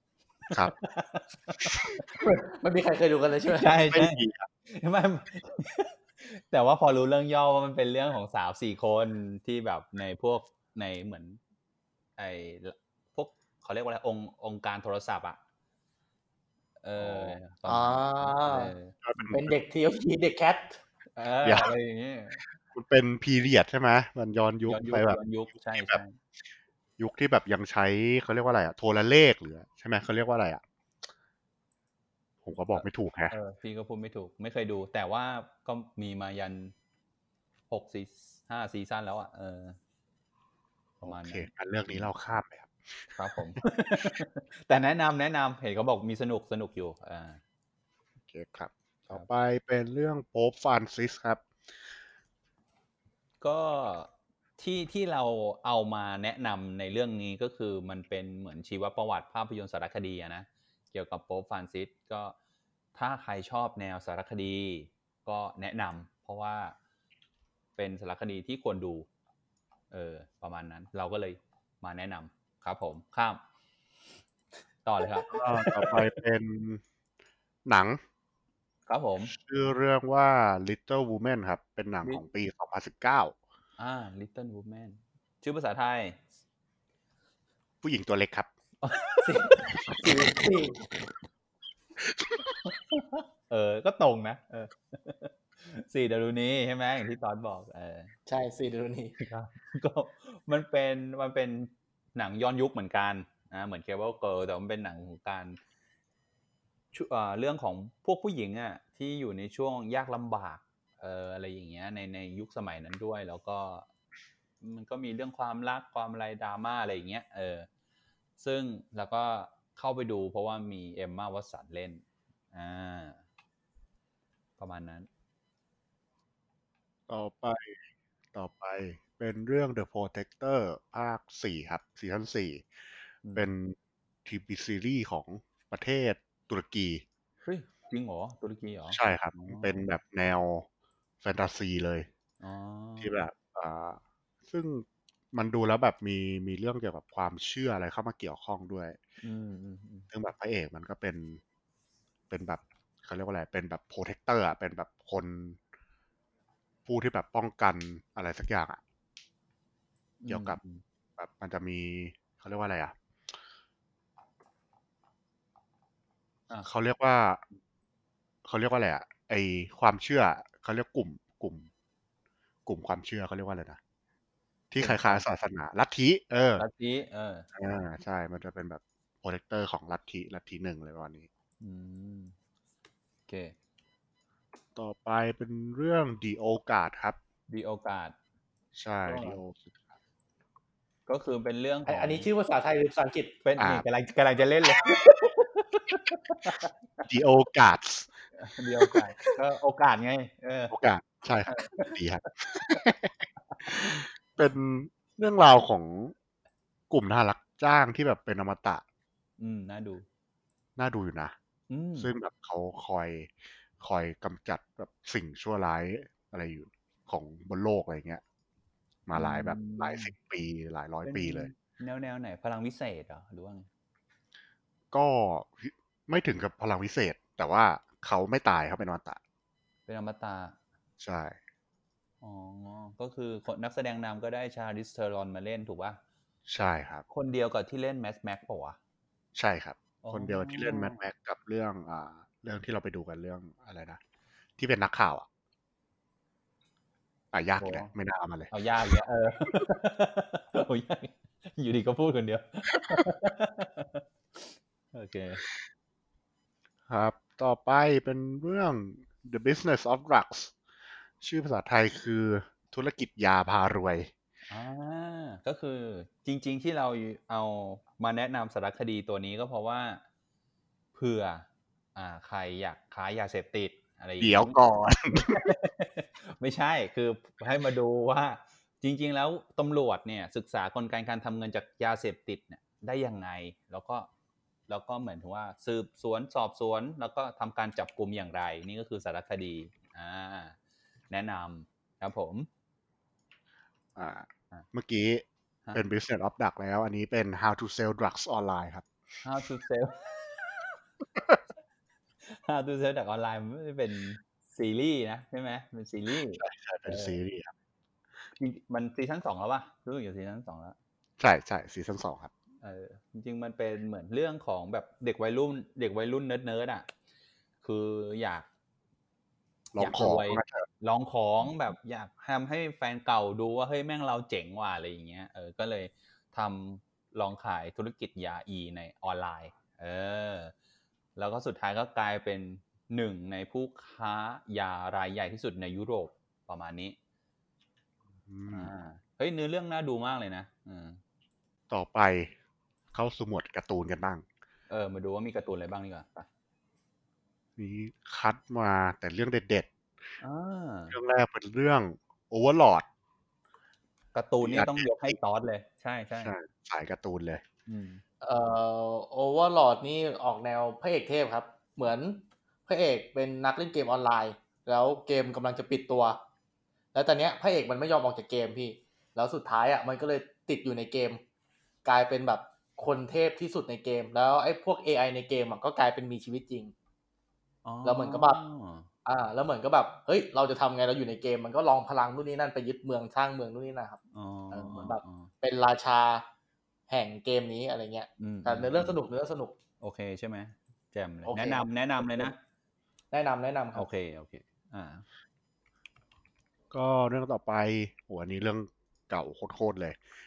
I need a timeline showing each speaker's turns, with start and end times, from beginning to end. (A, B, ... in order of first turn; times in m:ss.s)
0:00.5-0:02.0 A
0:02.2-0:03.7 B
0:03.5-0:11.4 A
0:03.9-0:04.5 C
0:12.2-0:15.4 A
0:16.8-0:19.0 A
0:17.0-0:17.4 C
0:17.6-0:18.7 B
0:19.0-0:19.5 C
0:19.3-0:20.8 B
0:21.2-0:22.4 A
0:21.4-0:21.7 C
0:22.7-0:26.0 C
0:24.7-0:26.2 A
0:27.0-0:30.6 C
0:32.4-0:33.3 C
0:32.7-0:36.7 A
0:37.7-0:39.8 A
0:41.0-0:42.1 A
0:41.0-0:42.7 C
0:43.2-0:47.4 A
0:48.2-0:51.4 C
0:53.4-1:02.4 A
1:02.9-1:06.8 A
1:07.8-1:09.1 A
1:09.9-1:13.4 A
1:14.8-1:16.0 A
1:15.3-1:16.8 C
1:17.6-1:18.0 C
1:18.9-1:19.3 A
1:19.3-1:23.4 C
1:23.8-1:26.2 A
1:27.8-1:28.5 C
1:28.8-1:29.8 A
1:29.2-1:30.8 B
1:32.1-1:32.5 C
1:32.6-1:38.1 A
1:38.3-1:39.2 B
1:39.2-1:45.6 A
1:46.9-1:53.9 A
1:54.6-1:57.7 A
1:58.4-2:03.2 A
2:04.6-2:05.1 A
2:07.1-2:07.8 C
2:08.3-2:12.7 C
2:13.3-2:17.0 C
2:17.4-2:19.8 A
2:18.9-2:20.6 C
2:21.2-2:22.1 C
2:22.4-2:23.2 A
2:23.0-2:29.0 C
2:29.2-2:30.1 A
2:30.1-2:31.4 C
2:32.3-2:35.6 C
2:36.8-2:38.8 C
2:40.2-2:40.8 A
2:40.3-2:40.6 C
2:41.2-2:42.9 C
2:46.6-2:47.4 C
2:48.4-2:51.7 C
2:52.6-2:53.8 C
2:54.7-2:56.6 C
2:54.8-2:55.2 A
2:56.6-2:57.5 A
2:57.5-3:01.3 C
3:01.6-3:02.3 A
3:03.3-3:03.5 A
3:04.7-3:07.2 C
3:07.5-3:08.1 A
3:08.7-3:09.8 C
3:09.0-3:09.4 A
3:11.1-3:12.3 A
3:11.8-3:13.4 B
3:13.4-3:16.7 A
3:13.6-3:13.8 C
3:17.1-3:18.1 C
3:18.4-3:20.7 A
3:20.7-3:26.1 C
3:21.5-3:22.0 A
3:23.5-3:24.0 A
3:26.9-3:28.8 C
3:29.4-3:30.0 A
3:30.8-3:31.3 C
3:31.7-3:32.1 A
3:32.0-3:38.2 C
3:39.1-3:41.5 C
3:39.1-3:40.1 A
3:41.0-3:43.7 A
3:44.9-3:49.2 C
3:49.9-3:50.6 A
3:51.0-3:51.4 C
3:52.2-3:56.0 A
3:56.5-3:57.0 C
3:57.1-3:58.8 A
3:59.3-4:04.0 C
4:00.0-4:01.0 A
4:04.6-4:05.3 C
4:07.3-4:08.5 C
4:07.6-4:07.9 A
4:08.5-4:15.4 A
4:16.9-4:20.5 C
4:21.2-4:24.1 C
4:24.5-4:30.0 A
4:30.9-4:34.6 A
4:34.2-4:35.5 C
4:35.1-4:44.1 A
4:44.7-4:50.6 A
4:51.1-4:52.5 A
4:53.9-4:58.8 C
4:59.2-5:00.8 A
5:02.2-5:07.2 A
5:06.1-5:07.5 C
5:08.4-5:10.8 A
5:11.2-5:12.3 C
5:12.6-5:16.9 A
5:17.6-5:18.5 A
5:19.7-5:20.6 C
5:19.8-5:30.5 A
5:31.2-5:37.0 A
5:38.3-5:38.7 C
5:38.5-5:41.0 A
5:41.7-5:42.3 C
5:42.9-5:44.2 C
5:44.7-5:46.3 A
5:47.6-5:49.7 C
5:50.2-5:51.0 A
5:50.9-5:52.8 C
5:54.1-5:56.3 A
5:54.4-5:55.2 C
5:56.2-5:57.4 C
5:57.7-5:58.0 A
5:58.2-6:06.2 B
6:06.9-6:11.2 B
6:11.8-6:16.7 B
6:17.6-6:18.9 A
6:17.8-6:18.4 B
6:19.0-6:24.0 B
6:24.1-6:25.3 A
6:24.5-6:26.2 B
6:26.9-6:29.5 B
6:28.2-6:28.9 A
6:29.8-6:32.4 A
6:31.2-6:32.3 B
6:33.1-6:33.9 B
6:33.7-6:35.0 A
6:36.7-6:40.0 C